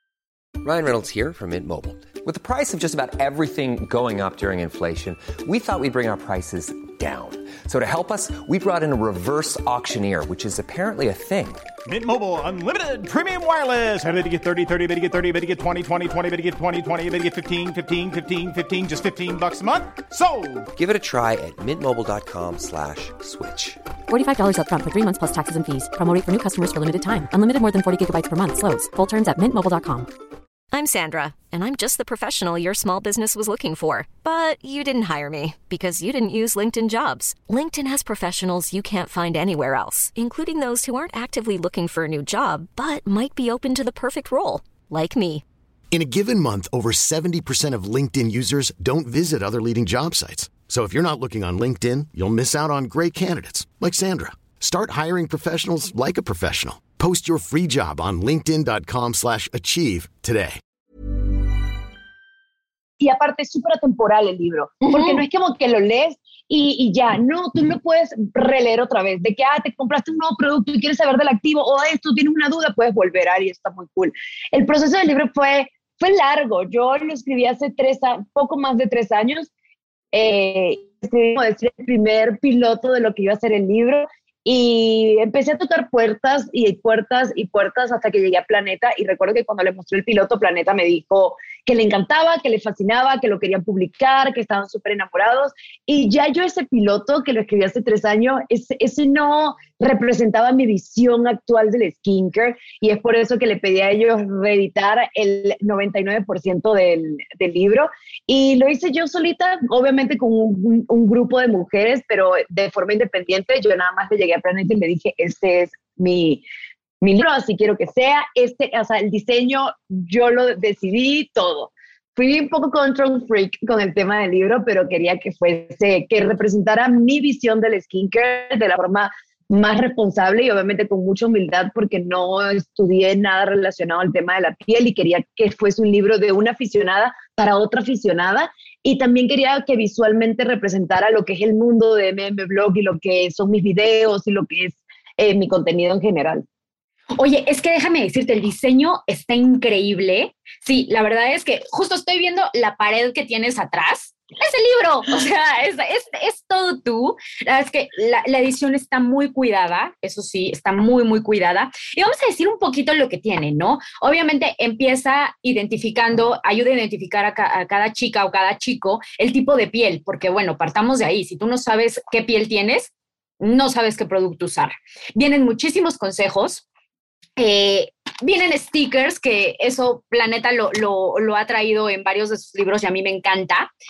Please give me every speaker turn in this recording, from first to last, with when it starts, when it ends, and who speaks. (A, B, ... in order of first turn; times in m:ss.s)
0:00.6-0:11.6 A
0:11.8-0:20.7 B
0:20.8-0:23.8 A
0:24.1-0:30.1 C
0:30.7-0:45.4 D
0:45.9-1:00.6 E
1:03.0-1:19.5 F
1:04.8-1:05.2 G
1:20.1-1:56.4 F
1:57.0-2:26.4 F
2:27.2-2:56.6 G
2:57.4-3:03.7 G